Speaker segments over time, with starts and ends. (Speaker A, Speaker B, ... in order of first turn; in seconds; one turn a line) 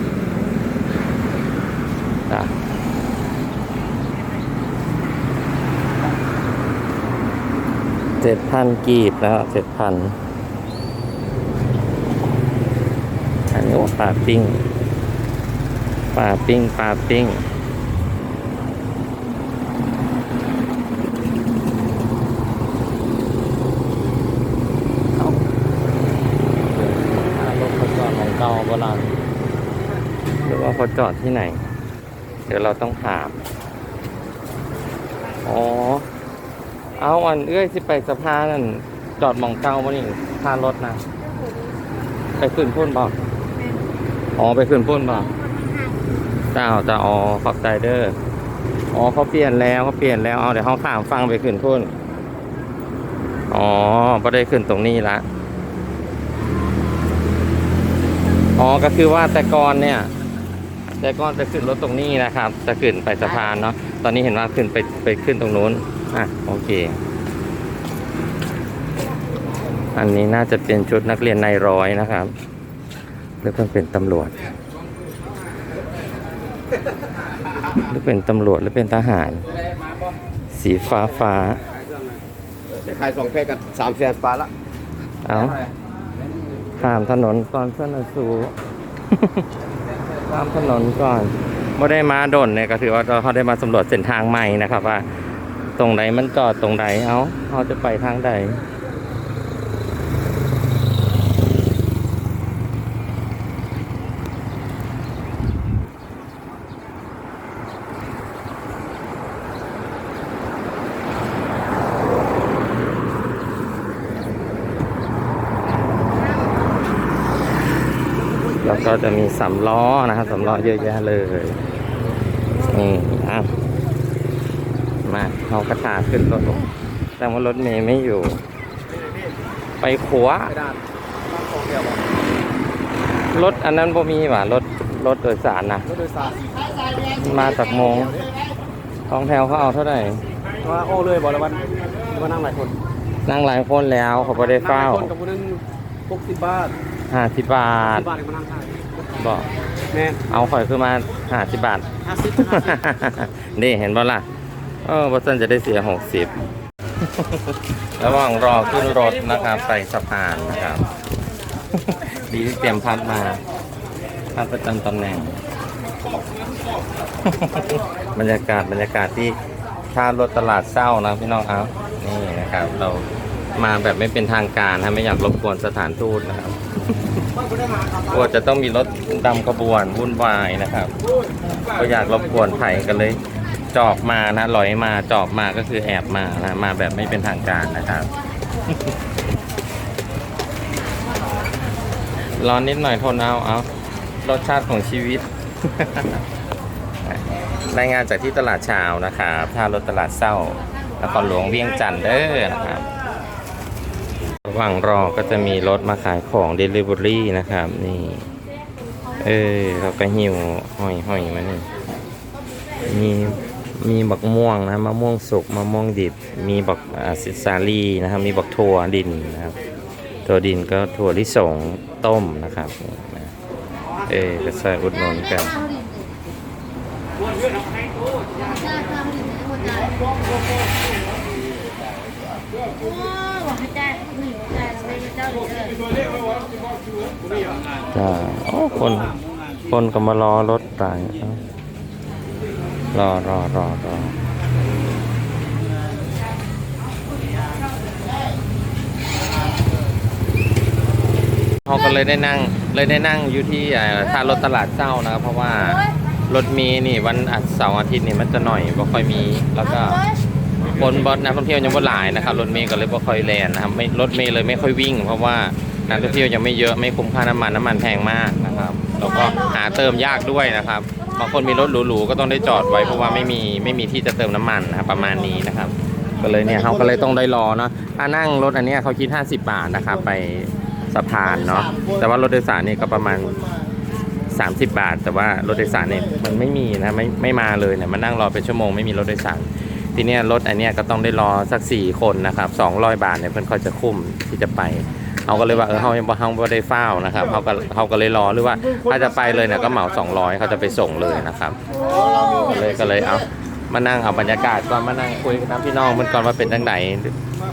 Speaker A: 8.2-10.2
Speaker A: 13.5-14.6
Speaker A: 16.1-17.4
Speaker A: 26.7-29.2
Speaker A: 30.4-31.6
Speaker A: 32.5-33.4
Speaker A: 35.4-36.0
Speaker A: 37.0-41.0
Speaker A: 42.4-43.1
Speaker B: 43.5-43.8
Speaker A: 44.4-45.3
Speaker B: 45.1-46.0
Speaker A: 46.5-48.1
Speaker A: 48.9-51.9
Speaker A: 53.5-55.2
Speaker A: 58.6-60.1
Speaker A: 61.0-67.0
Speaker A: 69.9-72.3
Speaker A: 73.4-74.4
Speaker A: 77.9-79.5
Speaker A: 80.5-81.6
Speaker C: 82.7-84.5
Speaker A: 85.2-85.6
Speaker A: 86.8-88.5
Speaker A: 89.1-89.4
Speaker A: 90.3-95.0
Speaker A: 95.8-98.6
Speaker A: 118.6-121.6
Speaker A: 122.7-123.5
Speaker A: 125.0-128.4
Speaker A: 129.8-130.5
Speaker C: 131.3-131.9
Speaker A: 133.3-135.9
Speaker C: 135.9-136.4
Speaker A: 137.2-138.1
Speaker A: 139.1-140.2
Speaker C: 140.6-142.7
Speaker A: 143.2-145.1
Speaker C: 144.5-146.7
Speaker A: 147.1-148.1
Speaker C: 147.9-148.8
Speaker A: 149.2-149.5
Speaker C: 149.9-150.2
Speaker A: 150.3-154.2
Speaker A: 154.8-156.3
Speaker A: 157.0-160.8
Speaker A: 161.7-163.4
Speaker A: 164.3-165.3
Speaker A: 167.2-169.4
Speaker A: 169.9-176.6
Speaker A: 178.1-180.9
Speaker A: 181.7-183.2
Speaker A: 183.7-188.1
Speaker A: 192.4-193.7
Speaker A: 194.2-196.2
Speaker A: 197.1-202.8
Speaker A: 204.4-208.3
Speaker A: 209.2-211.7
Speaker A: 212.8-219.6
Speaker A: 220.2-223.3
Speaker A: 224.1-225.5
Speaker B: 225.0-226.1
Speaker B: 228.4-230.1
Speaker B: 232.8-236.2
Speaker A: 237.9-239.1
Speaker A: 239.7-241.4
Speaker A: 242.9-244.2
Speaker A: 251.7-260.0
Speaker B: 255.7-255.9
Speaker B: 259.6-260.1
Speaker A: 260.6-283.4
Speaker A: 284.3-301.6
Speaker B: 301.7-302.8
Speaker A: 302.5-307.1